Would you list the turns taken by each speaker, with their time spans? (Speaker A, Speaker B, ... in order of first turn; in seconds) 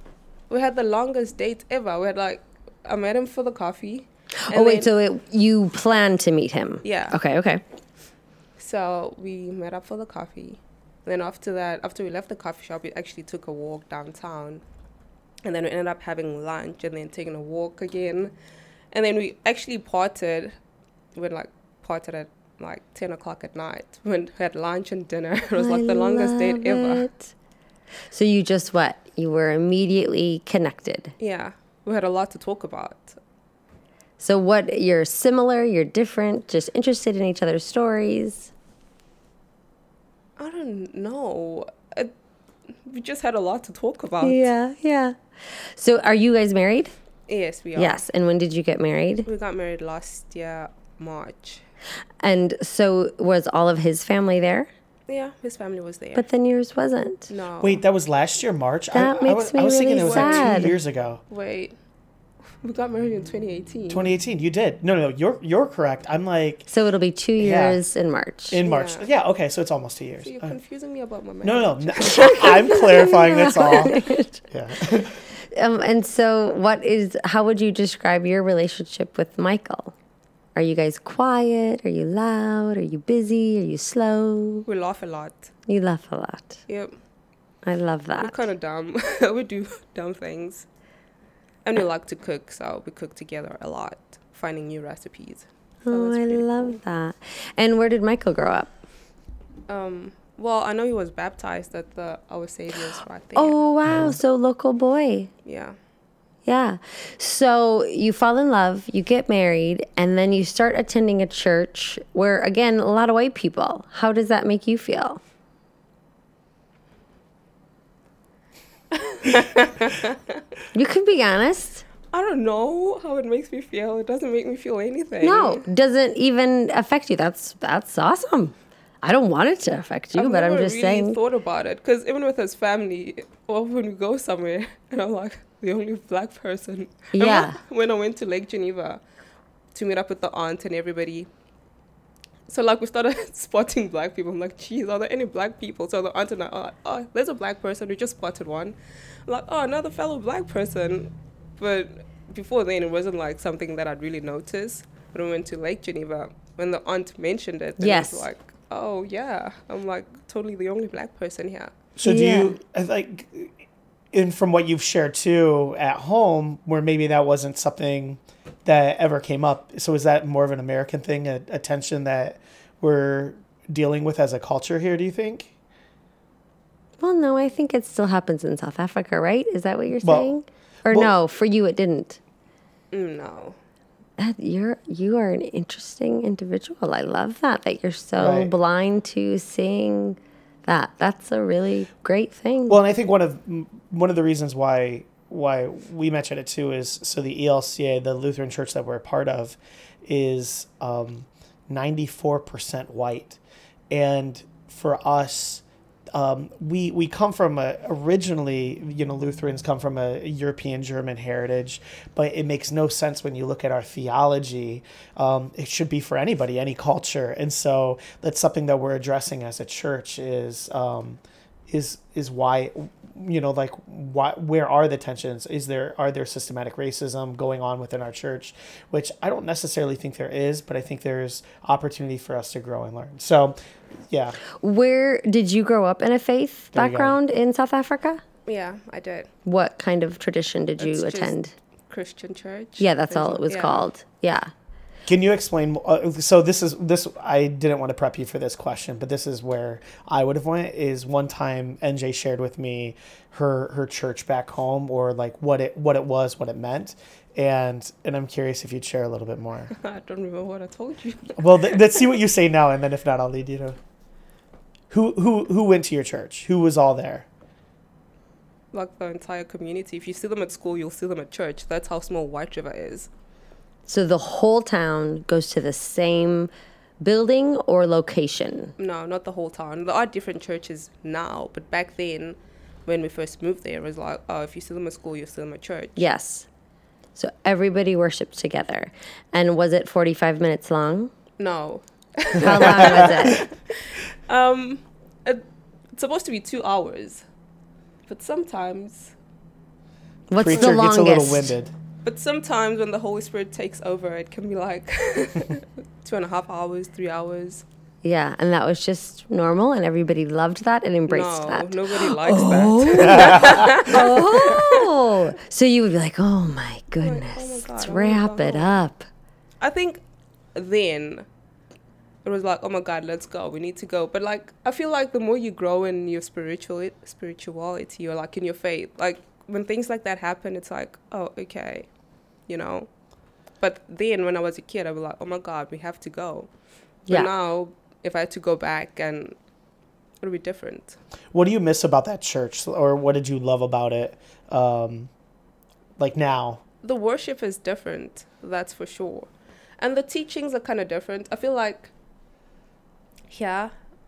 Speaker A: 0.5-4.9, 6.8-7.2, 8.6-14.6, 15.4-18.3, 18.9-20.6, 21.1-27.1, 31.2-33.2, 40.4-42.1, 42.9-44.5, 47.3-48.0, 49.3-51.6, 55.1-56.3, 57.3-57.8, 60.0-60.7, 61.3-61.8, 62.6-64.1, 68.6-69.1, 70.2-73.7, 84.7-85.5, 86.7-87.0, 88.2-90.7, 91.6-96.8, 99.7-103.6, 105.5-105.8, 118.9-120.4, 122.1-125.7, 130.2-139.0, 139.7-141.3, 142.5-161.7, 182.9-183.6, 238.5-239.3, 240.8-241.3, 241.9-243.9, 259.7-262.1, 268.7-273.1, 278.8-286.1, 291.4-295.4, 295.9-297.2, 298.1-299.1, 302.0-307.6, 311.1-315.0, 317.0-318.8, 319.6-320.0, 320.6-321.3, 322.2-331.9, 332.5-332.9, 333.6-336.5, 337.1-339.4, 340.2-341.0, 346.8-351.9, 353.3-353.7
Speaker B: 4.4-7.6, 25.6-27.3, 28.1-31.1, 34.2-38.5, 44.2-46.9, 47.8-49.3, 52.2-54.7, 56.1-57.3, 58.9-60.7, 66.7-68.6, 72.1-79.9, 80.5-84.7, 85.7-86.6, 87.7-88.5, 95.9-98.7, 103.3-105.3, 106.5-115.2, 120.7-121.8, 125.2-131.2, 137.1-137.6, 157.8-158.3, 162.0-162.6, 177.0-182.2, 184.2-192.8, 234.6-238.2, 239.5-241.5, 242.8-244.5, 273.9-278.7, 286.0-286.5, 287.2-291.1, 292.4-293.5, 300.3-301.5, 308.0-319.1
Speaker C: 57.6-61.2, 63.9-66.7, 67.4-67.8, 68.5-70.5, 71.4-74.0, 74.5-75.2, 103.9-104.2, 162.0-163.6, 164.1-175.5, 180.0-180.3, 180.9-181.1, 188.2-188.5, 192.7-203.4, 203.9-205.6, 206.1-233.6, 234.1-234.4, 236.7-237.2, 245.1-259.7, 261.4-263.8, 264.9-267.3, 292.6-293.3, 300.4-301.7, 313.0-313.8, 341.3-345.1, 346.0-346.6